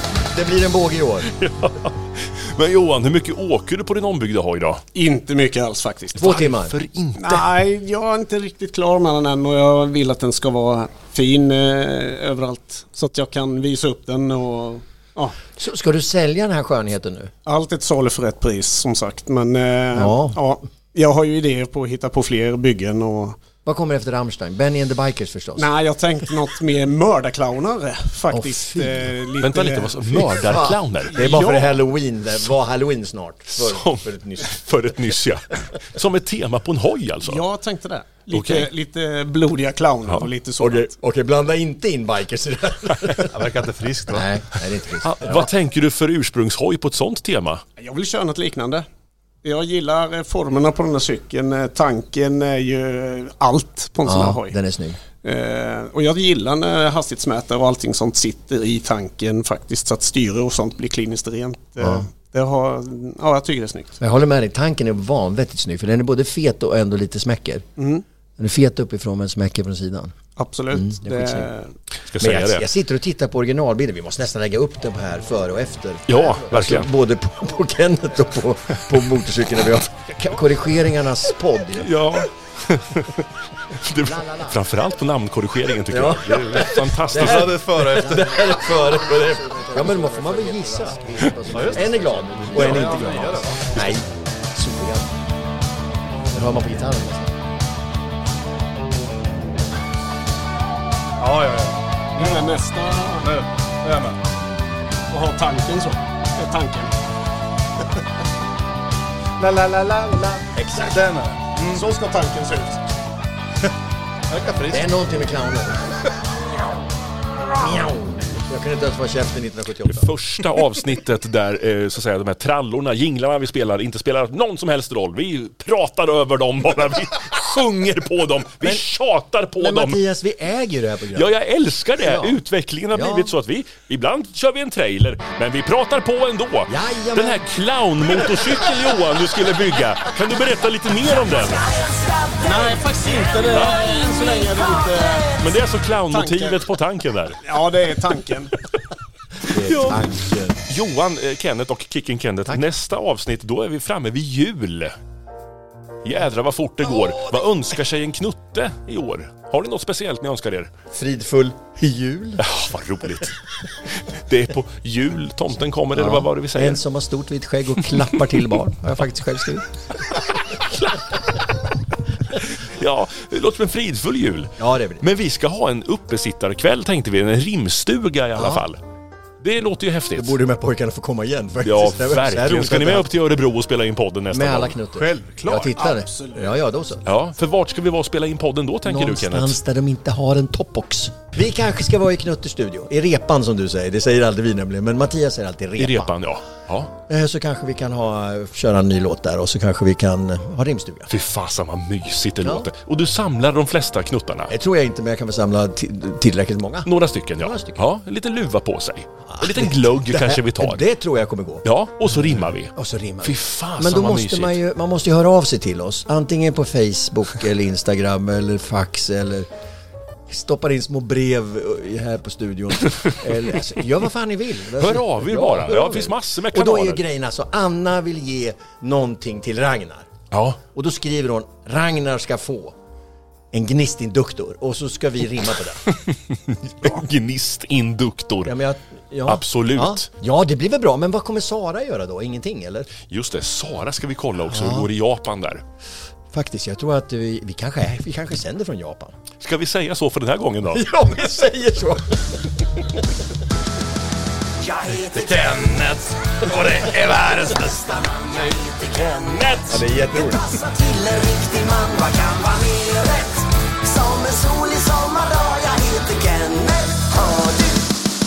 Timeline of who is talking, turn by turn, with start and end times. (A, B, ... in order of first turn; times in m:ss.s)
0:00.3-0:01.3 A
0:01.3-0:04.8 B
0:04.9-0:06.3 C
0:06.2-0:06.8 A
0:06.2-0:07.5 B
0:07.2-0:15.4 C
0:15.6-0:17.3 A
0:17.4-0:23.4 C
0:19.9-0:20.4 A
0:23.6-0:25.7 A
0:25.6-0:30.2 C
0:28.3-0:29.1 A
0:29.4-0:31.1 B
0:30.4-0:34.6 A
0:31.1-0:31.8 C
0:33.5-0:37.4 B
0:37.2-0:40.9 C
0:38.3-0:38.7 B
0:40.6-0:43.3 A
0:43.3-0:44.2 D
0:44.1-0:45.5 A
0:45.0-0:47.6 B
0:47.8-0:48.8 C
0:49.4-0:54.6 C
0:54.0-0:55.0 A
0:55.2-1:04.0 C
1:01.8-1:02.0 A
1:04.0-1:07.6 A
1:07.8-1:08.0 C
1:08.4-1:10.1 A
1:10.4-1:11.7 C
1:10.7-1:11.5 A
1:12.1-1:12.6 B
1:12.2-1:22.0 A
1:16.1-1:16.9 B
1:21.8-1:28.0 B
1:24.0-1:24.6 A
1:25.9-1:35.1 A
1:27.1-1:28.6 D
1:29.9-1:30.2 C
1:31.4-1:33.7 D
1:32.5-1:34.0 B
1:36.3-1:37.3 A
1:41.2-1:42.4 D
1:42.2-1:43.3 C
1:43.2-1:44.2 D
1:45.1-1:46.9 C
1:49.4-1:51.9 D
1:50.5-1:51.0 A
1:51.6-1:52.8 C
1:54.3-1:55.0 D
1:54.7-1:55.9 A
1:57.5-2:00.1 A
1:59.8-2:10.0 B
2:08.6-2:08.8 A
2:09.6-2:11.3 A
2:11.1-2:21.7 B
2:12.0-2:12.4 A
2:12.9-2:13.3 A
2:16.7-2:17.4 A
2:21.4-2:25.6 E
2:22.4-2:25.3 C
2:25.4-2:27.4 B
2:26.1-2:26.7 C
2:27.4-2:28.5 C
2:29.5-2:30.6 A
2:29.5-2:34.9 B
2:36.0-2:40.7 B
2:40.9-2:42.5 A
2:42.4-2:43.4 B
2:43.9-2:46.8 B
2:45.9-2:49.7 A
2:47.9-2:48.4 B
2:50.1-2:51.4 B
2:52.3-2:58.8 B
2:54.6-2:55.0 A
2:58.4-2:58.6 A
2:59.4-3:00.3 B
3:00.1-3:03.1 A
3:01.6-3:04.8 B
3:04.3-3:07.1 A
3:04.9-3:06.0 D
3:05.8-3:06.5 C
3:07.0-3:09.6 B
3:08.8-3:16.1 A
3:15.8-3:16.9 B
3:17.1-3:21.1 A
3:21.1-3:24.5 B
3:22.4-3:22.7 A
3:24.5-3:27.8 A
3:26.8-3:30.8 B
3:29.3-3:39.5 A
3:31.6-3:34.6 B
3:40.3-3:50.1 A
3:44.8-3:47.0 B
3:50.3-3:50.6 B
3:50.7-3:52.7 A
3:53.5-3:55.8 A
3:55.9-3:58.5 B
3:58.4-4:02.9 A
3:59.2-4:00.1 B
4:03.1-4:05.6 B
4:04.4-4:04.9 A
4:06.3-4:09.1 A
4:09.4-4:10.9 B
4:10.7-4:12.5 A
4:14.6-4:15.8 E
4:15.1-4:17.8 D
4:16.7-4:28.0 E
4:19.7-4:20.4 A